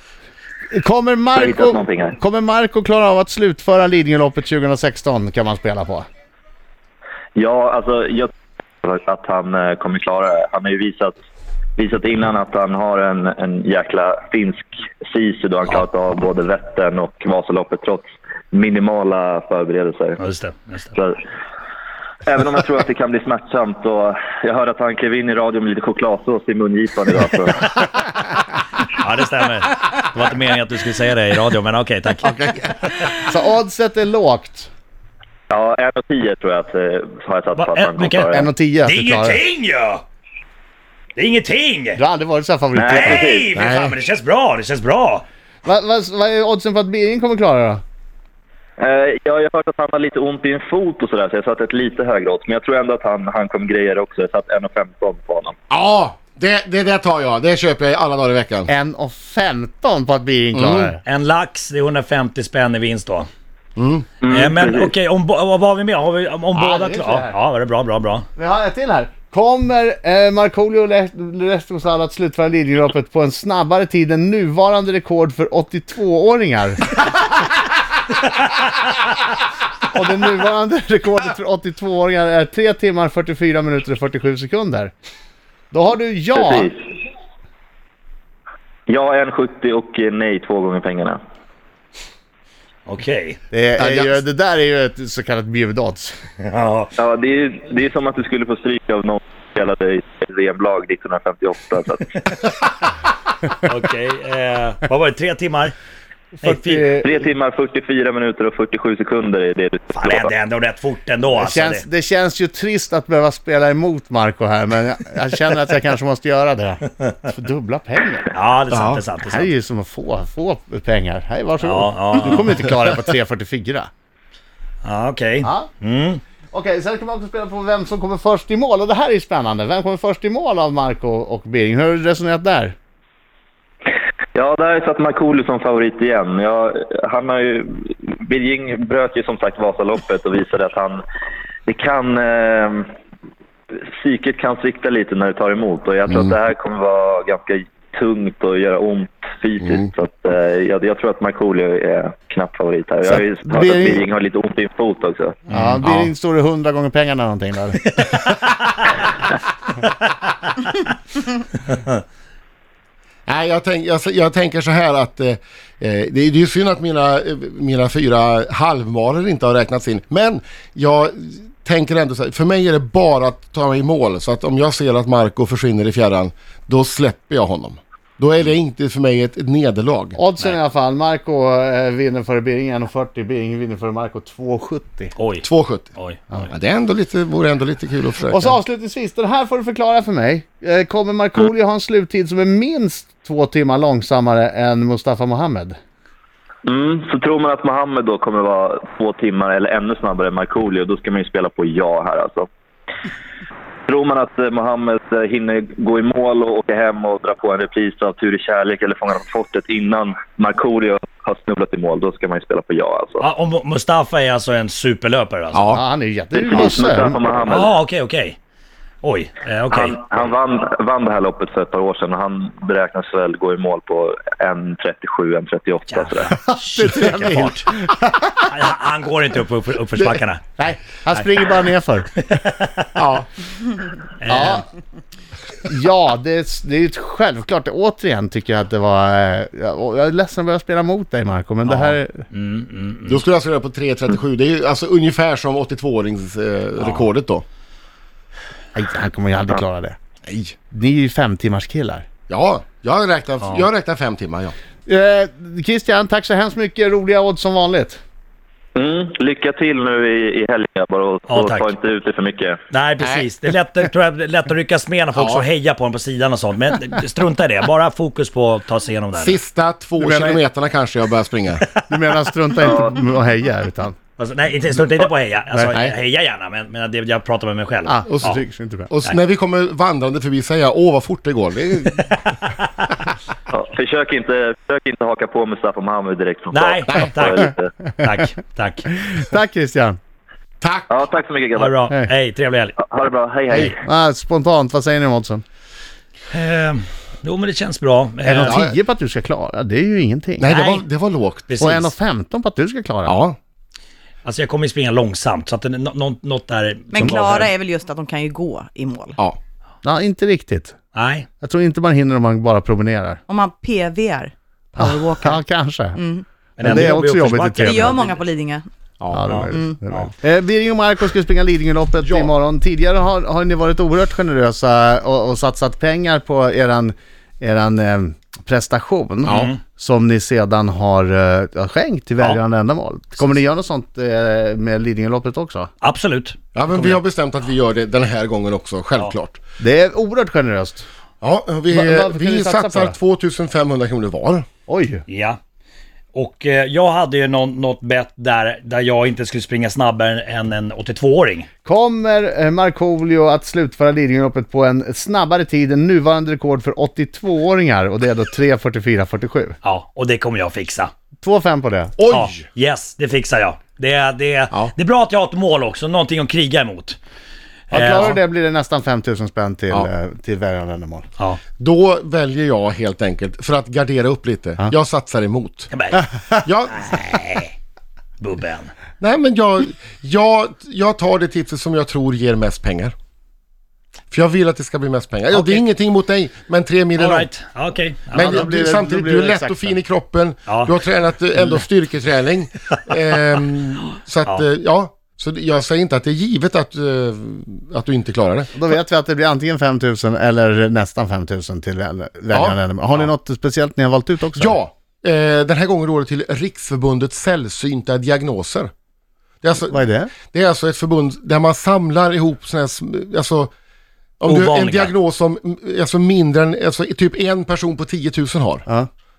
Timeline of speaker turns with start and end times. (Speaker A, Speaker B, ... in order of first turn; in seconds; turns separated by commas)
Speaker A: 0.7-6.1, Speaker B: 1.4-2.1, Speaker B: 7.4-8.3, Speaker B: 8.8-11.2, Speaker B: 11.8-20.2, Speaker C: 20.2-20.9, Speaker B: 20.9-21.2, Speaker B: 22.2-27.9, Speaker C: 28.8-32.5, Speaker A: 32.2-34.7, Speaker B: 35.5-38.4, Speaker C: 37.6-38.3, Speaker A: 38.3-39.4, Speaker C: 38.8-40.0, Speaker C: 41.2-42.0, Speaker A: 42.0-43.3, Speaker B: 42.8-43.5, Speaker C: 42.9-45.2, Speaker D: 43.5-44.0, Speaker A: 45.6-47.8, Speaker B: 48.8-55.6, Speaker D: 55.7-58.7, Speaker A: 58.7-61.0, Speaker D: 60.5-60.9, Speaker C: 61.0-63.3, Speaker D: 63.8-64.1, Speaker B: 64.2-64.9, Speaker C: 64.3-68.3, Speaker A: 66.5-67.3, Speaker A: 68.4-77.0, Speaker A: 79.9-84.9, Speaker A: 85.7-86.7, Speaker B: 86.4-86.8, Speaker B: 88.9-91.2, Speaker C: 92.9-93.4, Speaker A: 93.5-96.2, Speaker D: 93.8-94.2, Speaker C: 96.4-96.9, Speaker B: 97.0-102.1, Speaker C: 102.2-102.5, Speaker C: 103.6-105.7, Speaker A: 106.4-107.3, Speaker C: 106.4-106.8, Speaker B: 107.0-110.3, Speaker C: 109.9-111.8, Speaker A: 111.4-118.3, Speaker C: 118.3-119.5, Speaker D: 118.7-119.0, Speaker A: 119.2-123.9, Speaker C: 121.6-122.7, Speaker C: 124.8-126.2, Speaker A: 125.4-125.7, Speaker A: 126.5-132.8, Speaker B: 134.3-141.0, Speaker B: 141.7-142.8, Speaker B: 143.9-155.4, Speaker A: 153.1-154.0, Speaker C: 155.5-155.9, Speaker A: 155.5-157.8, Speaker C: 157.9-158.9, Speaker D: 163.3-180.2, Speaker A: 180.2-185.1, Speaker C: 185.2-186.4, Speaker D: 185.4-188.6, Speaker A: 188.3-195.8, Speaker B: 196.7-202.5, Speaker B: 203.9-213.2, Speaker C: 213.2-215.6, Speaker D: 215.5-215.8, Speaker A: 215.7-217.2, Speaker B: 216.4-217.7, Speaker C: 217.5-218.4, Speaker C: 219.0-220.1, Speaker B: 219.7-226.3, Speaker C: 225.9-227.7, Speaker A: 226.4-228.5, Speaker C: 228.5-230.5, Speaker A: 230.6-232.1, Speaker C: 232.2-232.9, Speaker D: 233.0-233.3, Speaker C: 234.2-234.7, Speaker A: 234.3-234.6, Speaker A: 235.7-242.2, Speaker C: 241.7-243.2, Speaker D: 243.1-247.4, Speaker C: 246.8-247.1, Speaker A: 248.8-250.0, Speaker D: 250.3-250.5, Speaker A: 250.7-252.1, Speaker D: 252.3-254.5, Speaker A: 254.9-258.0, Speaker B: 258.8-262.6, Speaker C: 261.3-261.7, Speaker C: 262.7-269.4, Speaker D: 263.0-263.3, Speaker D: 265.1-265.5, Speaker D: 269.2-271.7, Speaker A: 270.0-270.4, Speaker A: 271.9-274.0, Speaker C: 274.2-278.4, Speaker A: 277.9-278.9, Speaker D: 278.1-278.4, Speaker D: 278.9-282.4, Speaker B: 283.5-287.5, Speaker C: 286.5-288.9, Speaker A: 289.0-290.0, Speaker D: 290.6-290.9, Speaker B: 290.9-291.6, Speaker C: 291.6-292.8, Speaker B: 292.8-293.6, Speaker A: 293.6-295.4, Speaker C: 296.3-298.6, Speaker A: 298.2-300.7, Speaker D: 298.4-298.7, Speaker D: 300.4-301.8, Speaker C: 300.5-300.8, Speaker C: 301.5-301.9, Speaker A: 301.6-303.2, Speaker D: 303.1-303.4, Speaker C: 304.2-307.5, Speaker E: 306.9-309.2, Speaker A: 309.8-310.8, Speaker C: 310.9-311.3, Speaker A: 311.4-313.2, Speaker E: 313.3-316.2, Speaker A: 314.8-316.0, Speaker C: 316.6-318.1, Speaker A: 316.6-318.1, Speaker E: 317.6-318.7, Speaker D: 319.0-319.3, Speaker A: 319.1-335.7, Speaker C: 319.3-320.1, Speaker E: 319.5-319.8, Speaker D: 322.0-322.3, Speaker D: 329.3-329.5, Speaker C: 329.3-329.6, Speaker C: 335.8-337.0, Speaker D: 336.6-339.4, Speaker A: 339.6-340.9, Speaker D: 341.2-344.5, Speaker A: 341.7-343.0, Speaker A: 344.7-345.0, Speaker C: 345.1-345.4, Speaker C: 346.1-351.5, Speaker A: 351.6-359.6, Speaker C: 359.6-360.9, Speaker A: 361.2-361.9, Speaker D: 362.0-362.4, Speaker C: 362.1-367.0, Speaker C: 367.7-368.2, Speaker A: 367.7-371.1, Speaker D: 371.6-375.7, Speaker C: 375.7-376.1, Speaker D: 376.4-377.0, Speaker C: 376.7-377.5, Speaker C: 378.2-378.7, Speaker D: 379.0-382.9, Speaker D: 384.1-387.3, Speaker C: 385.3-385.6, Speaker C: 387.0-388.4, Speaker D: 388.1-398.5, Speaker A: 388.1-389.8, Speaker C: 390.5-390.8, Speaker A: 398.6-404.6, Speaker D: 402.3-402.6, Speaker D: 404.4-408.7, Speaker D: 409.4-413.5, Speaker A: 409.7-410.1, Speaker D: 414.2-418.7, Speaker C: 414.2-414.9